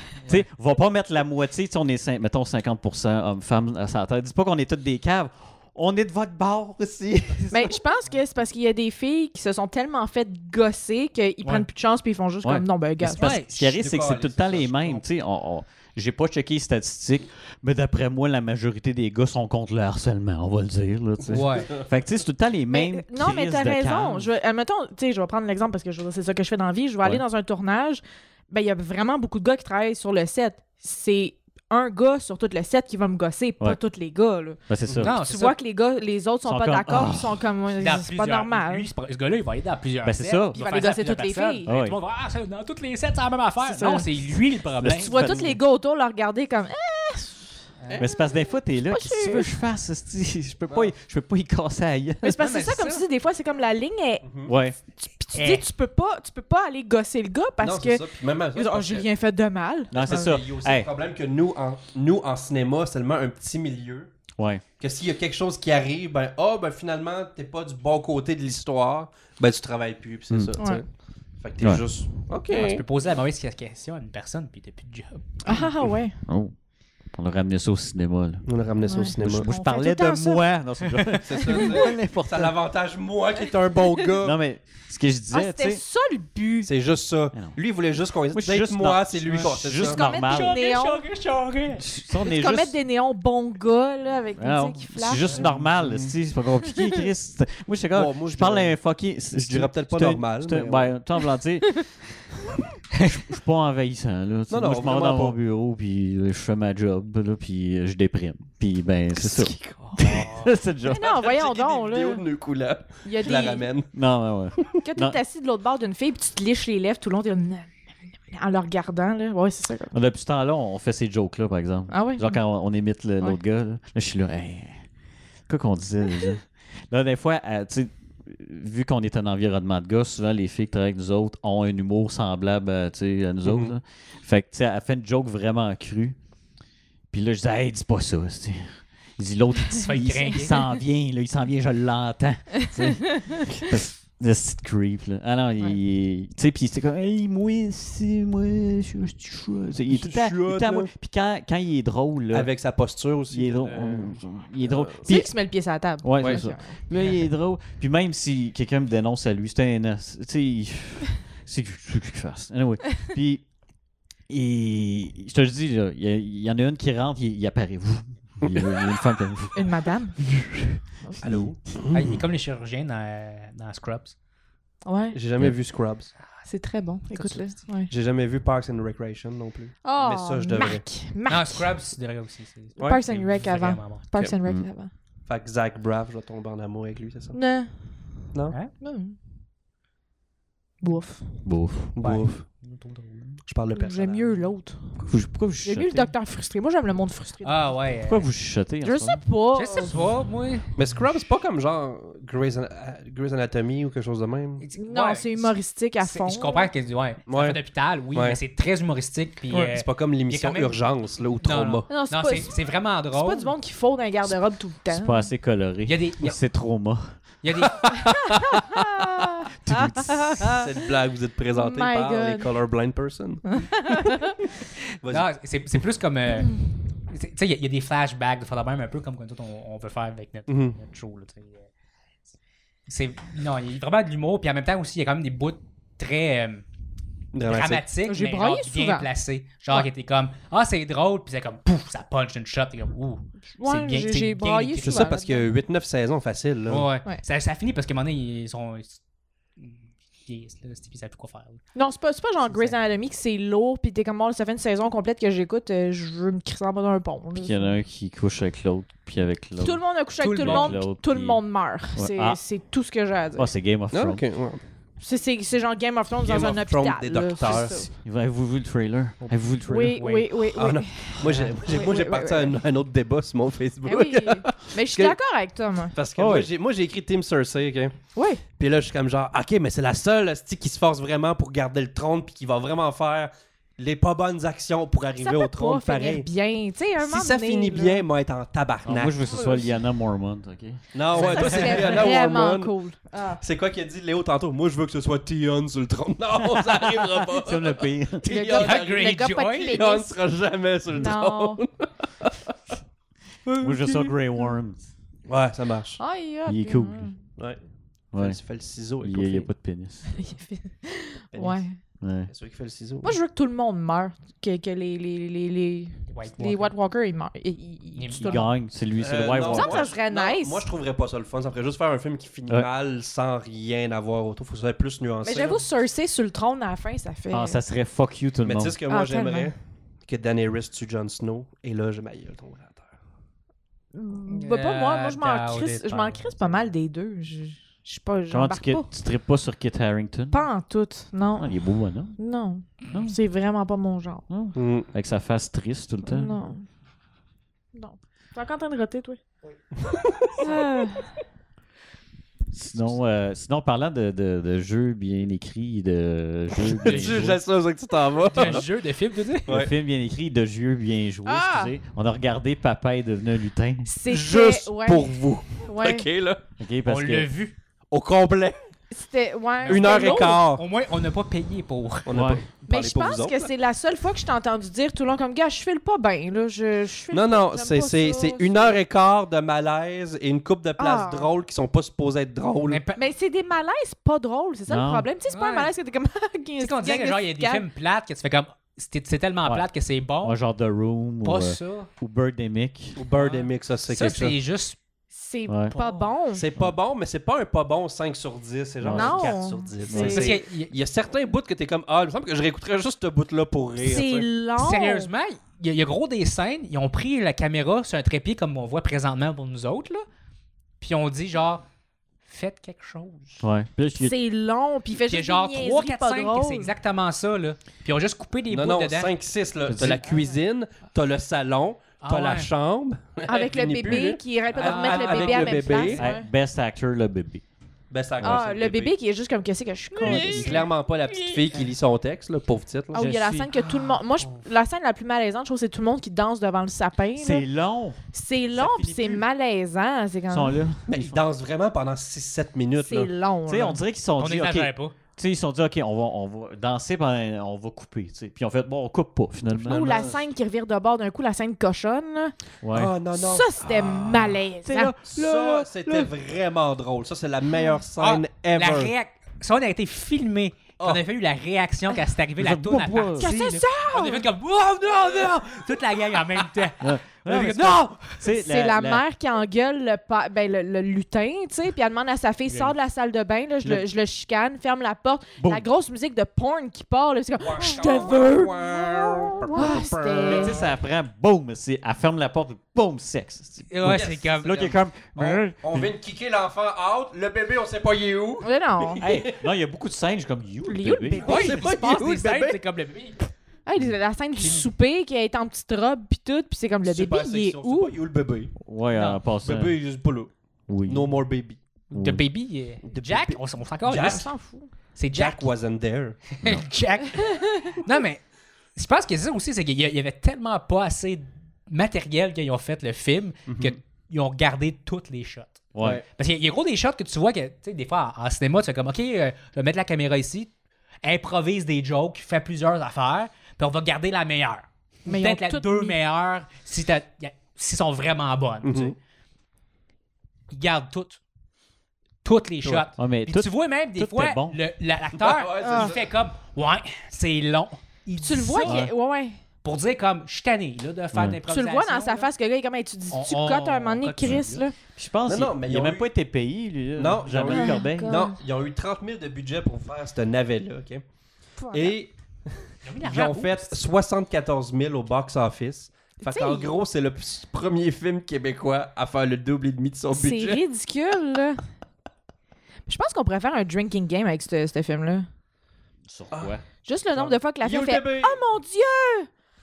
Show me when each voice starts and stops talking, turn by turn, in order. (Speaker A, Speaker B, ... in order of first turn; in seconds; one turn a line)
Speaker A: 0.2-7.8
Speaker B: 7.5-13.3
Speaker A: 12.4-24.3
Speaker C: 13.2-13.5
Speaker D: 13.6-15.0
Speaker D: 21.2-21.8
Speaker C: 21.3-21.7
Speaker B: 22.7-34.6
Speaker A: 34.7-35.1
Speaker C: 35.0-35.6
Speaker B: 35.1-38.9
Speaker A: 36.4-37.4
Speaker C: 37.8-45.2
Speaker A: 40.0-40.6
Speaker B: 40.5-41.7
Speaker A: 41.6-42.0
Speaker B: 43.6-49.5
Speaker A: 44.8-45.6
Speaker A: 48.0-52.4
Speaker B: 52.2-54.2
Speaker C: 52.4-53.0
Speaker D: 54.2-54.5
Speaker A: 54.5-54.8
Speaker B: 55.0-60.4
Speaker C: 55.3-55.6
Speaker D: 57.6-59.1
Speaker A: 59.9-60.9
Speaker D: 59.9-64.1
Speaker A: 64.4-64.6
Speaker D: 64.8-70.8
Speaker A: 70.3-70.5
Speaker B: 70.6-70.8
Speaker D: 71.4-72.8
Speaker A: 71.6-71.8
Speaker C: 72.5-75.4
Speaker B: 75.4-76.2
Speaker A: 76.2-76.5
Speaker A: 77.1-78.4
Speaker D: 78.5-79.5
Speaker B: 78.8-80.4
Speaker A: 79.2-82.5
Speaker D: 81.2-84.4
Speaker B: 81.5-81.7
Speaker A: 84.2-85.8
Speaker B: 85.3-86.7
Speaker D: 86.6-90.0
Speaker A: 88.3-90.5
Speaker B: 89.7-91.0
Speaker C: 90.0-91.8
Speaker A: 91.8-92.8
Speaker B: 92.2-95.2
Speaker A: 94.4-102.2
Speaker C: 95.2-95.5
Speaker D: 95.2-96.1
Speaker D: 97.9-98.8
Speaker D: 99.3-100.9
Speaker A: 103.1-111.1
Speaker D: 104.5-105.3
Speaker D: 109.2-110.0
Speaker C: 109.8-110.5
Speaker B: 110.9-112.2
Speaker D: 110.9-113.9
Speaker B: 113.0-113.7
Speaker A: 113.9-115.2
Speaker B: 114.8-119.9
Speaker A: 119.9-124.8
Speaker B: 121.9-122.4
Speaker A: 125.5-136.2
Speaker D: 133.4-133.7
Speaker A: 137.1-152.5
Speaker C: 139.8-140.6
Speaker D: 149.9-150.9
Speaker D: 152.3-155.1
Speaker A: 153.3-155.3
Speaker B: 155.0-156.8
Speaker A: 156.0-163.5
Speaker D: 156.2-156.4
Speaker C: 156.9-157.2
Speaker A: 164.3-169.6
Speaker D: 168.4-168.8
Speaker B: 169.5-170.2
Speaker D: 171.2-172.2
Speaker C: 171.9-174.1
Speaker B: 174.8-175.2
Speaker D: 175.1-176.1
Speaker B: 176.4-177.9
Speaker C: 177.1-177.6
Speaker D: 177.9-180.8
Speaker B: 179.8-181.7
Speaker C: 181.3-184.1
Speaker D: 182.8-183.1
Speaker B: 182.8-184.9
Speaker D: 185.2-187.4
Speaker B: 187.3-189.2
Speaker B: 190.8-191.4
Speaker A: 191.4-191.9
Speaker D: 191.9-192.4
Speaker C: 192.0-193.4
Speaker D: 193.4-194.5
Speaker B: 193.7-195.0
Speaker A: 195.0-196.1
Speaker B: 195.6-198.0
Speaker C: 197.4-198.3
Speaker A: 198.1-199.2
Speaker B: 198.8-199.9
Speaker C: 199.5-200.7
Speaker D: 200.8-204.6
Speaker C: 204.6-210.8
Speaker B: 204.8-206.7
Speaker D: 207.3-207.6
Speaker D: 208.1-208.4
Speaker D: 209.5-211.9
Speaker C: 211.4-213.5
Speaker B: 211.9-215.3
Speaker A: 214.9-217.2
Speaker C: 215.8-216.4
Speaker C: 217.4-218.1
Speaker D: 217.7-218.6
Speaker B: 218.6-220.6
Speaker A: 219.6-220.6
Speaker D: 220.4-224.2
Speaker B: 221.5-222.5
Speaker B: 223.6-224.3
Speaker D: 225.0-225.3
Speaker C: 225.1-231.7
Speaker D: 230.5-230.8
Speaker C: 232.9-236.6
Speaker D: 237.3-237.8
Speaker C: 237.4-245.1
Speaker B: 238.0-239.1
Speaker B: 243.5-245.4
Speaker D: 244.8-246.9
Speaker C: 246.7-249.0
Speaker C: 249.6-251.6
Speaker B: 251.7-257.8
Speaker C: 252.5-252.8
Speaker A: 257.3-261.4
Speaker B: 259.6-263.5
Speaker C: 260.2-260.8
Speaker A: 261.9-262.4
Speaker A: 263.4-264.2
Speaker D: 263.9-264.6
Speaker B: 265.0-267.9
Speaker D: 266.2-267.9
Speaker A: 267.9-270.0
Speaker C: 269.2-270.3
Speaker B: 269.6-272.6
Speaker D: 270.5-275.2
Speaker C: 271.2-271.6
Speaker B: 273.8-275.9
Speaker D: 275.9-277.9
Speaker A: 276.1-276.5
Speaker B: 278.1-278.4
Speaker D: 278.6-286.3
Speaker B: 285.2-288.0
Speaker D: 287.0-289.6
Speaker A: 288.8-291.7
Speaker B: 289.3-289.6
Speaker D: 290.9-292.7
Speaker C: 291.1-292.0
Speaker B: 291.2-293.4
Speaker D: 293.4-302.4
Speaker A: 296.4-298.4
Speaker B: 298.2-300.1
Speaker C: 298.5-299.8
Speaker B: 300.9-301.6
Speaker D: 303.4-304.1
Speaker A: 303.6-304.8
Speaker D: 305.3-306.0
Speaker B: 306.0-307.2
Speaker A: 306.4-307.1
Speaker A: 308.1-308.4
Speaker D: 308.1-309.5
Speaker A: 309.0-310.1
Speaker B: 310.1-311.8
Speaker D: 311.3-311.6
Speaker A: 312.0-312.3
Speaker D: 312.3-313.2
Speaker B: 313.0-318.5
Speaker C: 316.1-316.7
Speaker C: 318.0-318.4
Speaker A: 318.2-319.9
Speaker D: 319.0-325.6
Speaker B: 319.4-320.6
Speaker B: 325.2-327.6
Speaker A: 327.3-328.8
Speaker D: 328.4-332.9
Speaker B: 328.9-329.5
Speaker B: 333.9-338.9
Speaker C: 334.3-336.7
Speaker A: 338.3-340.4
Speaker B: 340.3-341.5
Speaker A: 341.4-342.1
Speaker B: 342.1-344.2
Speaker A: 342.9-343.1
Speaker A: 344.3-346.4
Speaker D: 344.5-344.9
Speaker B: 346.0-346.6
Speaker B: 347.7-349.2
Speaker D: 349.8-350.6
Speaker B: 350.4-351.1
Speaker A: 352.5-357.4
Speaker D: 356.8-358.7
Speaker C: 356.8-357.3
Speaker C: 358.2-359.5
Speaker A: 358.4-358.6
Speaker A: 359.5-363.9
Speaker B: 361.2-361.7
Speaker B: 363.8-366.1
Speaker D: 364.1-366.4
Speaker A: 366.6-367.3
Speaker C: 366.8-367.5
Speaker D: 367.9-368.6
Speaker B: 368.9-370.4
Speaker C: 369.6-372.1
Speaker D: 369.7-370.6
Speaker D: 372.1-373.5
Speaker A: 372.1-372.4
Speaker B: 372.7-378.8
Speaker D: 377.1-382.8
Speaker B: 380.8-381.3
Speaker C: 382.7-383.0
Speaker B: 382.9-387.6
Speaker A: 384.7-385.1
Speaker C: 385.3-385.7
Speaker C: 386.6-390.4
Speaker A: 390.2-393.0
Speaker C: 391.2-391.9
Speaker D: 392.9-394.4
Speaker C: 393.1-394.8
Speaker B: 395.1-396.4
Speaker A: 395.5-395.7
Speaker C: 395.7-396.1
Speaker D: 396.3-404.3
Speaker A: 398.8-399.3
Speaker B: 398.9-400.4
Speaker A: 399.9-400.2
Speaker C: 400.0-400.7
Speaker B: 403.8-405.1
Speaker C: 404.6-410.0
Speaker C: 410.8-411.6
Speaker C: 412.2-413.4
Speaker A: 413.4-414.1
Speaker B: 414.0-416.7
Speaker C: 415.0-419.1
Speaker D: 418.5-426.1
Speaker A: 419.7-420.0
Speaker C: 422.0-422.5
Speaker B: 423.3-426.3
Speaker C: 424.5-425.8
Speaker A: 425.8-427.4
Speaker D: 427.9-428.9
Speaker A: 428.2-428.4
Speaker B: 428.2-430.7
Speaker A: 430.0-430.6
Speaker D: 430.0-433.1
Speaker A: 432.9-433.5
Speaker B: 432.9-437.4
Speaker C: 433.6-434.4
Speaker A: 437.2-438.0
Speaker B: 438.1-440.6
Speaker A: 438.5-439.2
Speaker A: 440.3-441.2
Speaker D: 440.9-443.1
Speaker B: 442.8-443.8
Speaker A: 443.5-450.0
Speaker C: 444.2-444.9
Speaker D: 449.6-450.2
Speaker B: 449.6-452.3
Speaker A: 452.6-452.9
Speaker D: 452.7-454.4
Speaker B: 453.1-454.9
Speaker A: 454.6-456.1
Speaker D: 455.1-458.9
Speaker C: 458.0-468.1
Speaker A: 462.4-463.3
Speaker B: 463.2-464.2
Speaker A: 466.8-469.0
Speaker B: 468.2-480.6
Speaker C: 472.5-472.7
Speaker A: 475.4-475.7
Speaker D: 477.4-480.7
Speaker A: 480.2-485.9
Speaker C: 483.7-484.7
Speaker D: 483.8-489.4
Speaker B: 488.4-489.0
Speaker A: 489.0-491.3
Speaker B: 490.6-491.6
Speaker D: 491.1-492.6
Speaker C: 491.2-493.3
Speaker B: 493.6-497.9
Speaker D: 496.8-498.5
Speaker A: 498.6-499.7
Speaker C: 498.9-499.2
Speaker D: 499.4-500.3
Speaker A: 500.7-501.1
Speaker D: 500.9-501.6
Speaker C: 501.9-504.3
Speaker A: 501.9-502.2
Speaker D: 502.9-504.3
Speaker B: 503.9-504.7
Speaker C: 504.9-505.5
Speaker D: 505.1-506.2
Speaker C: 506.4-508.2
Speaker C: 508.8-528.9
Speaker D: 513.5-513.8
Speaker A: 515.7-516.0
Speaker B: 525.0-526.0
Speaker D: 528.6-529.0
Speaker C: 530.5-531.2
Speaker C: 532.2-538.9
Speaker A: 533.0-534.6
Speaker D: 535.1-536.0
Speaker B: 535.6-535.9
Speaker B: 538.2-539.4
Speaker A: 538.6-538.9
Speaker C: 539.6-542.3
Speaker A: 541.1-541.4
Speaker B: 541.5-544.7
Speaker C: 543.1-544.6
Speaker A: 545.0-548.2
Speaker D: 545.2-546.1
Speaker D: 547.0-551.0
Speaker B: 547.5-548.4
Speaker B: 551.6-552.0
Speaker D: 551.7-560.6
Speaker C: 552.8-553.8
Speaker B: 556.2-556.7
Speaker B: 560.1-561.6
Speaker B: 562.9-565.3
Speaker A: 566.1-566.6
Speaker B: 566.8-569.3
Speaker D: 567.1-568.4